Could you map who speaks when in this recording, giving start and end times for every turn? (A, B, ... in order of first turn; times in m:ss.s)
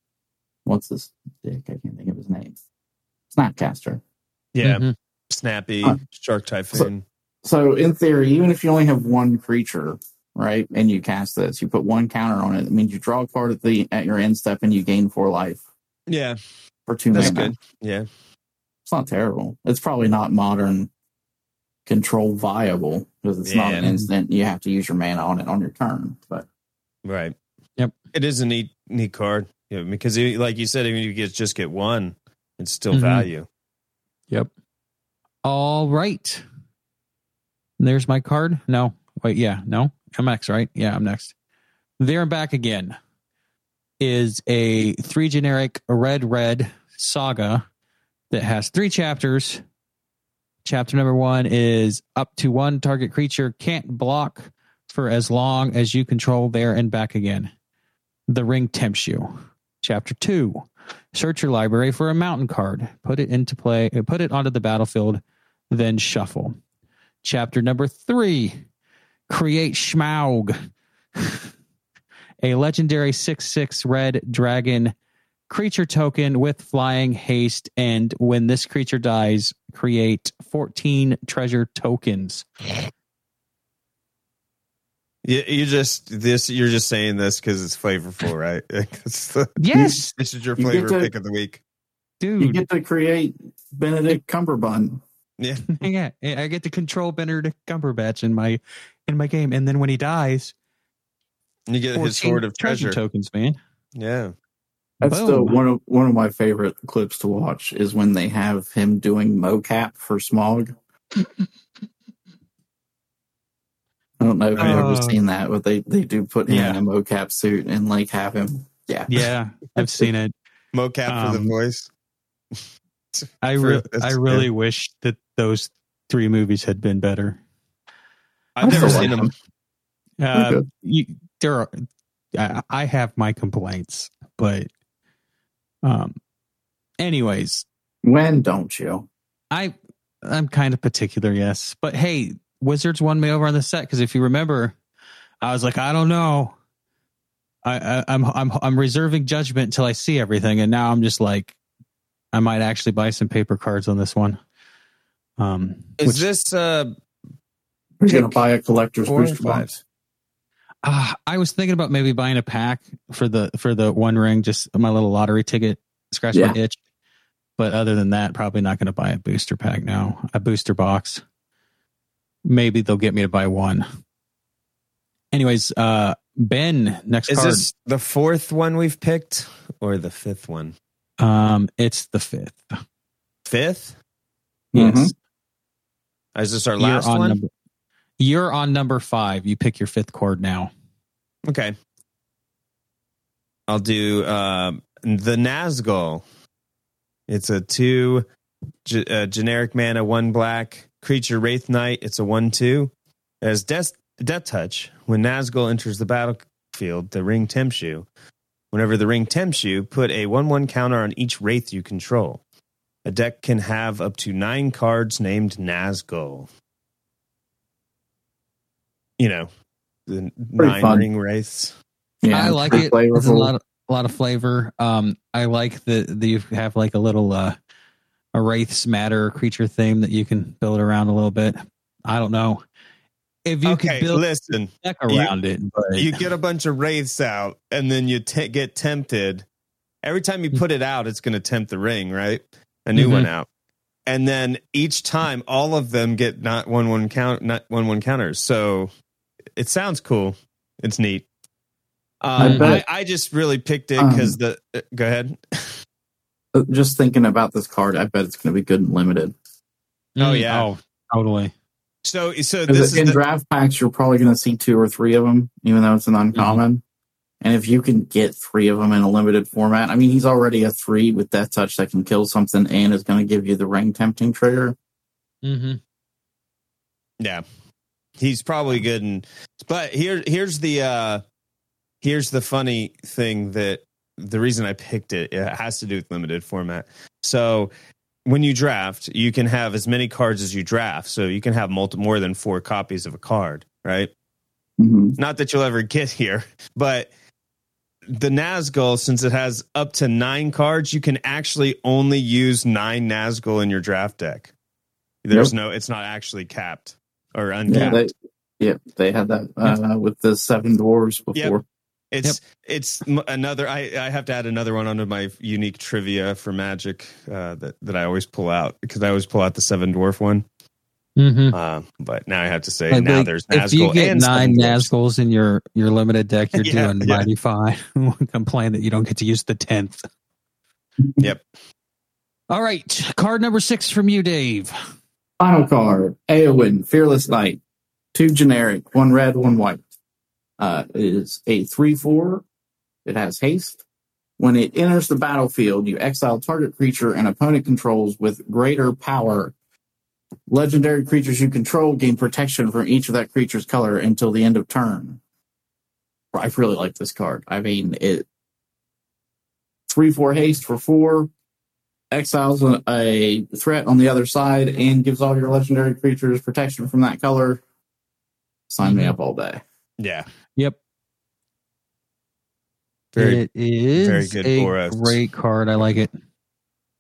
0:00.7-0:02.6 A
0:03.3-0:04.0 A
0:04.5-0:07.1 B
0:04.6-0:04.9 C
0:07.4-0:15.6 A
0:16.1-0:16.4 B
0:16.9-0:17.5 A
0:17.1-0:18.1 B
0:18.8-0:20.9 A
0:21.9-0:26.5 A
0:23.5-0:23.9 B
0:27.0-0:27.4 B
0:28.1-0:33.5 B
0:32.9-0:33.3 C
0:35.4-0:36.4 C
0:37.8-0:41.3 C
0:42.0-0:43.0 C
0:44.0-0:47.6 C
0:48.3-0:49.6 C
0:50.6-0:57.5 C
0:58.3-1:06.6 C
1:07.2-1:08.6 C
1:09.3-1:10.6 C
1:11.2-1:11.5 C
1:12.4-1:14.9 C
1:15.5-1:22.5 C
1:25.2-1:31.6 B
1:29.6-1:30.1 C
1:30.6-1:31.1 A
1:32.2-1:32.6 C
1:32.4-1:35.0 A
1:35.4-1:35.7 B
1:35.7-1:40.5 C
1:41.7-1:43.0 B
1:42.0-1:43.6 C
1:44.0-1:44.3 B
1:45.0-1:50.8 A
1:45.0-1:45.6 C
1:54.2-1:59.1 A
1:54.6-1:54.9 B
1:54.6-1:55.2 C
1:56.5-1:56.8 C
1:59.1-2:00.3 C
2:00.7-2:01.9 B
2:01.1-2:01.5 C
2:03.1-2:04.5 B
2:03.4-2:07.4 C
2:08.6-2:09.3 B
2:08.6-2:09.1 C
2:08.6-2:09.3 A
2:10.2-2:11.8 C
2:10.3-2:10.6 A
2:12.3-2:14.7 C
2:15.8-2:16.2 C
2:17.0-2:17.6 C
2:18.0-2:19.1 A
2:19.5-2:24.8 C
2:25.4-2:26.6 C
2:27.6-2:31.6 C
2:32.3-2:34.4 C
2:35.4-2:36.2 C
2:36.0-2:36.9 B
2:38.0-2:39.7 A
2:38.1-2:38.4 B
2:39.1-2:39.8 B
2:40.8-2:46.8 C
2:47.6-2:51.2 C
2:52.5-2:53.9 C
2:55.3-2:57.7 C
2:57.3-3:00.8 B
3:01.2-3:02.8 C
3:03.5-3:04.0 B
3:04.7-3:05.1 A
3:04.7-3:05.1 C
3:06.4-3:07.4 B
3:06.8-3:07.5 C
3:08.2-3:10.7 C
3:11.5-3:11.7 B
3:13.7-3:16.2 B
3:17.3-3:18.3 B
3:18.8-3:28.1 B
3:28.7-3:32.4 B
3:33.0-3:36.5 B
3:39.2-3:39.5 B
3:40.1-3:41.8 B
3:40.6-3:41.1 A
3:42.2-3:43.5 A
3:42.3-3:47.6 C
3:48.3-3:52.6 C
3:53.5-3:54.3 C
3:53.6-3:55.3 B
3:54.8-3:56.2 C
3:56.0-3:59.5 B
4:00.0-4:03.5 B
4:03.0-4:03.3 C
4:04.1-4:08.9 B
4:09.6-4:11.3 B
4:12.2-4:15.8 B
4:12.4-4:12.8 A
4:12.4-4:12.8 C
4:14.0-4:14.4 A
4:16.6-4:19.4 A
4:20.2-4:21.5 C
4:20.2-4:20.7 B
4:22.0-4:23.2 B
4:22.7-4:26.8 A
4:26.4-4:26.6 C
4:27.4-4:34.8 A
4:35.4-4:35.8 C
4:38.2-4:41.2 B
4:42.0-4:47.7 B
4:48.3-4:54.1 B
4:54.8-4:55.2 A
4:55.2-4:57.1 B
4:58.1-5:04.5 B
5:05.2-5:08.1 B
5:07.7-5:11.6 A
5:07.7-5:08.0 C
5:12.1-5:20.5 B
5:21.2-5:21.6 C
5:21.5-5:24.9 B
5:22.9-5:30.1 C
5:26.6-5:27.3 B
5:31.2-5:31.4 B
5:32.5-5:34.8 C
5:35.4-5:37.6 A
5:38.1-5:39.8 A
5:40.6-5:42.4 A
5:43.0-5:43.8 A
5:44.4-5:49.5 A
5:50.5-5:55.2 A
5:56.3-5:58.3 A
5:59.9-6:01.3 A
6:02.1-6:07.6 A
6:08.7-6:09.6 A
6:08.8-6:09.2 C
6:10.0-6:10.3 B
6:13.2-6:13.4 B
6:13.2-6:16.1 C
6:14.0-6:15.2 B